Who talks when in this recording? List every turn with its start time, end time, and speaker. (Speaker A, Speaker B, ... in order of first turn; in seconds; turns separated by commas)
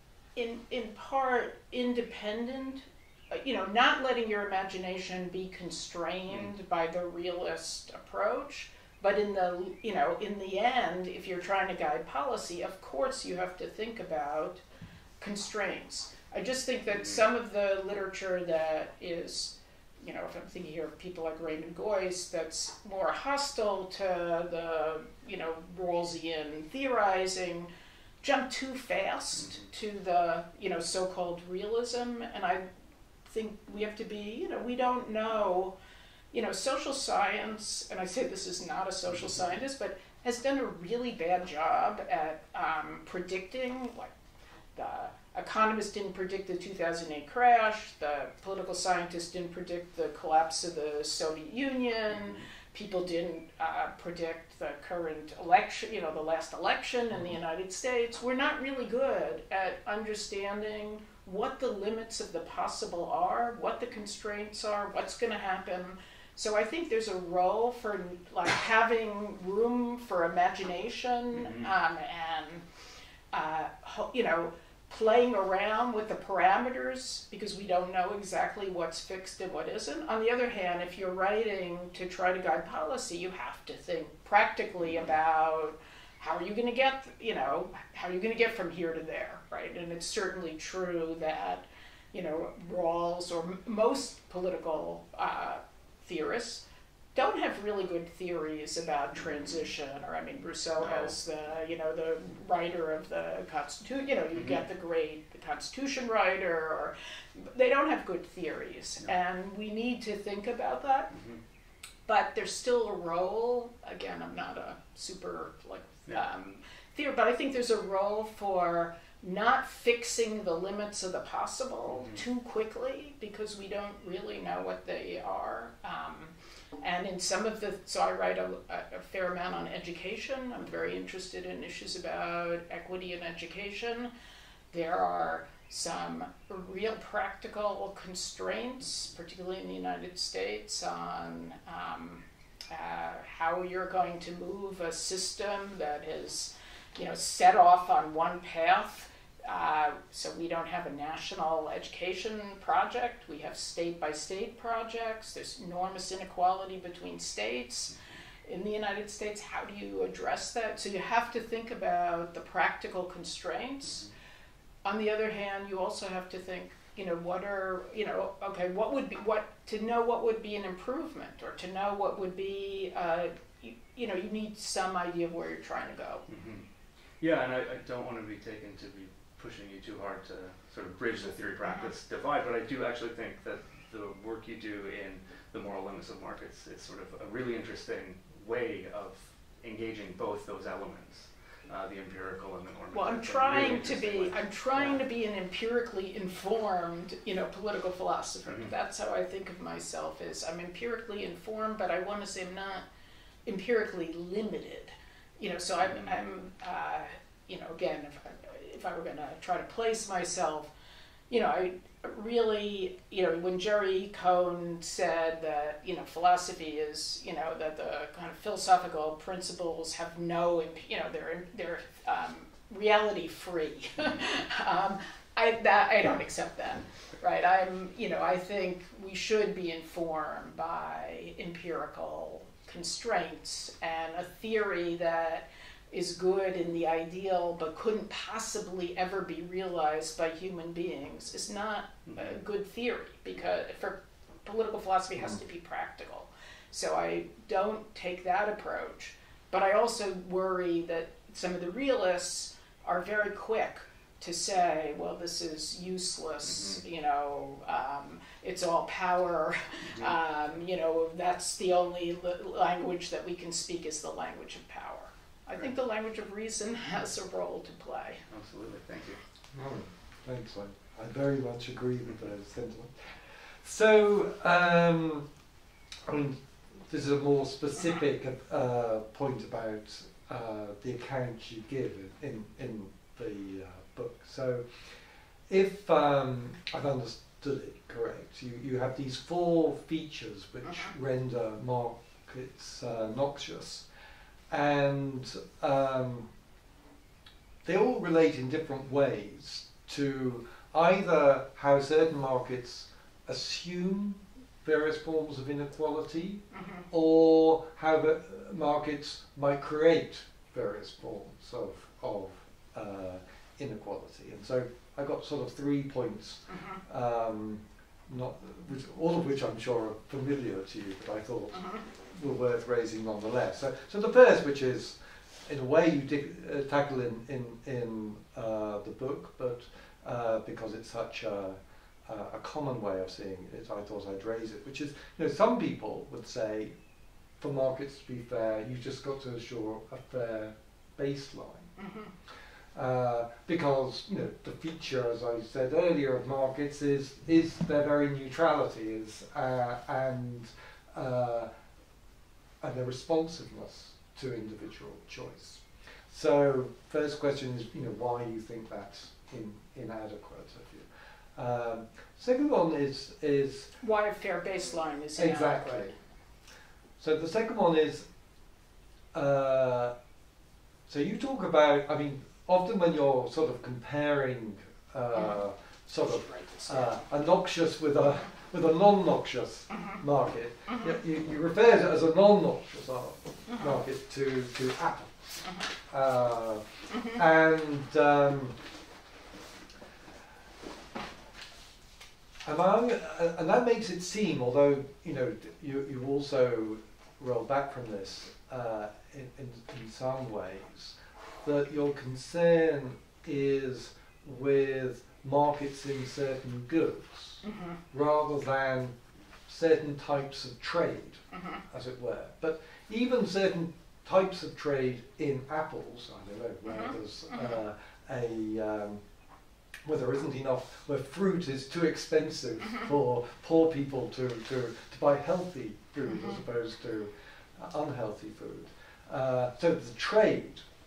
Speaker A: 0.3-14.6, Speaker A: 15.2-27.7, Speaker A: 28.2-32.6, Speaker A: 33.3-35.7, Speaker A: 36.3-44.1, Speaker A: 44.8-72.6, Speaker B: 71.3-71.7, Speaker A: 73.3-96.6, Speaker A: 97.1-111.1, Speaker B: 100.8-101.1, Speaker B: 104.3-104.6, Speaker B: 111.1-111.4, Speaker A: 112.1-134.1, Speaker B: 121.9-122.2, Speaker A: 134.7-157.9, Speaker A: 158.4-164.0, Speaker A: 164.8-176.2, Speaker B: 176.3-176.7, Speaker B: 177.2-195.0, Speaker A: 192.9-202.8, Speaker B: 198.4-198.7, Speaker A: 203.4-210.7, Speaker B: 205.8-206.2, Speaker A: 211.3-268.2, Speaker B: 242.1-242.4, Speaker B: 256.5-256.8, Speaker B: 268.3-269.2, Speaker C: 269.5-275.3, Speaker C: 276.1-284.9, Speaker C: 285.5-293.9, Speaker C: 294.5-296.3, Speaker C: 297.6-336.7, Speaker A: 306.6-306.8, Speaker C: 337.4-341.7, Speaker A: 341.8-342.1, Speaker C: 342.7-351.5, Speaker C: 352.6-363.7, Speaker A: 363.8-365.9, Speaker C: 365.2-365.9, Speaker C: 367.0-368.0, Speaker C: 369.1-369.9, Speaker C: 370.9-388.6, Speaker A: 376.1-377.0, Speaker C: 392.4-408.9, Speaker A: 407.4-407.7, Speaker C: 409.5-419.0, Speaker C: 419.8-430.6